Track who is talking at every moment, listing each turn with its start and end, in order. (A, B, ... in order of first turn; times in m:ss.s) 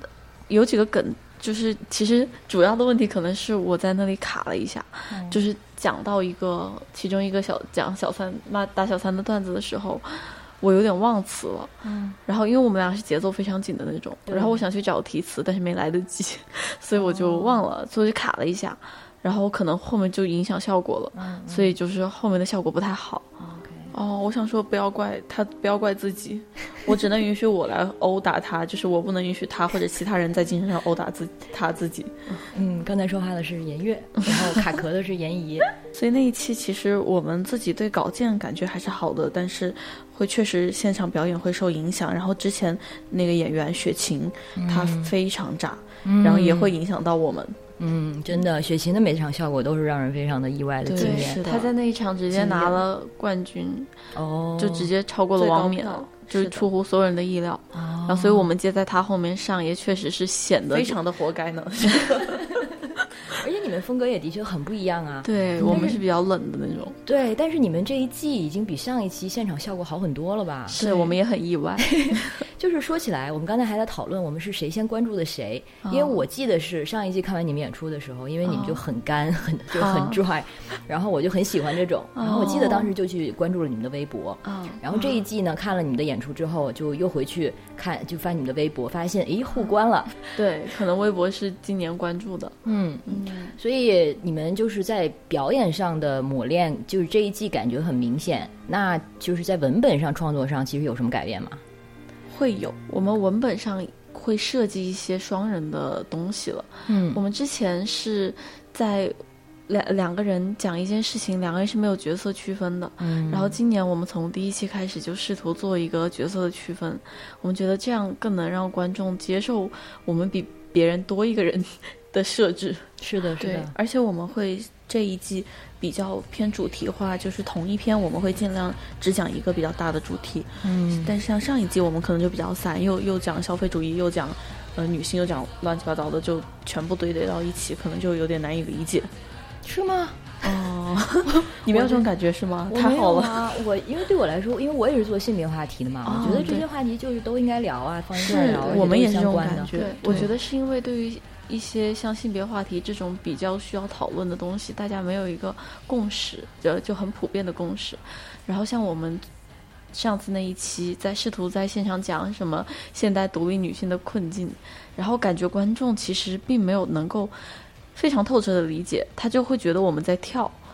0:00.5-0:11.8 A
0:05.1-0:05.4 B
0:11.8-0:12.2 B
0:12.3-0:23.3 A
0:14.3-0:14.6 B
0:17.0-0:17.6 B
0:21.1-0:21.7 B
0:23.4-0:23.9 B
0:23.9-0:32.4 C
0:32.5-0:35.7 B
0:35.9-0:47.6 C
0:44.6-0:45.1 B
0:46.0-0:46.7 B
0:47.8-0:51.4 B
0:50.8-0:51.7 C
0:51.0-0:53.9 A
0:52.3-0:52.8 C
0:54.1-0:54.9 B
0:54.6-1:01.0 A
0:55.4-0:56.6 C
0:57.7-0:58.5 B
1:00.7-1:02.5 C
1:02.3-1:06.0 B
1:05.2-1:07.0 A
1:05.6-1:06.0 C
1:07.1-1:10.8 B
1:10.7-1:12.2 A
1:10.8-1:11.2 C
1:11.9-1:30.2 B
1:15.8-1:16.2 A
1:18.5-1:18.8 A
1:19.7-1:20.2 A
1:22.2-1:22.9 A
1:24.4-1:24.8 A
1:30.3-1:33.5 A
1:32.6-1:41.6 B
1:42.3-1:42.8 C
1:42.8-1:49.2 A
1:46.9-1:47.2 B
1:49.7-2:03.6 A
1:53.0-1:53.6 B
2:03.0-2:03.8 B
2:03.7-2:19.1 C
2:10.6-2:11.1 B
2:19.6-2:20.4 B
2:20.4-2:23.5 C
2:22.7-2:30.3 B
2:26.1-2:26.6 C
2:26.2-2:26.6 A
2:28.2-2:30.3 C
2:29.7-2:39.2 A
2:39.9-2:50.6 A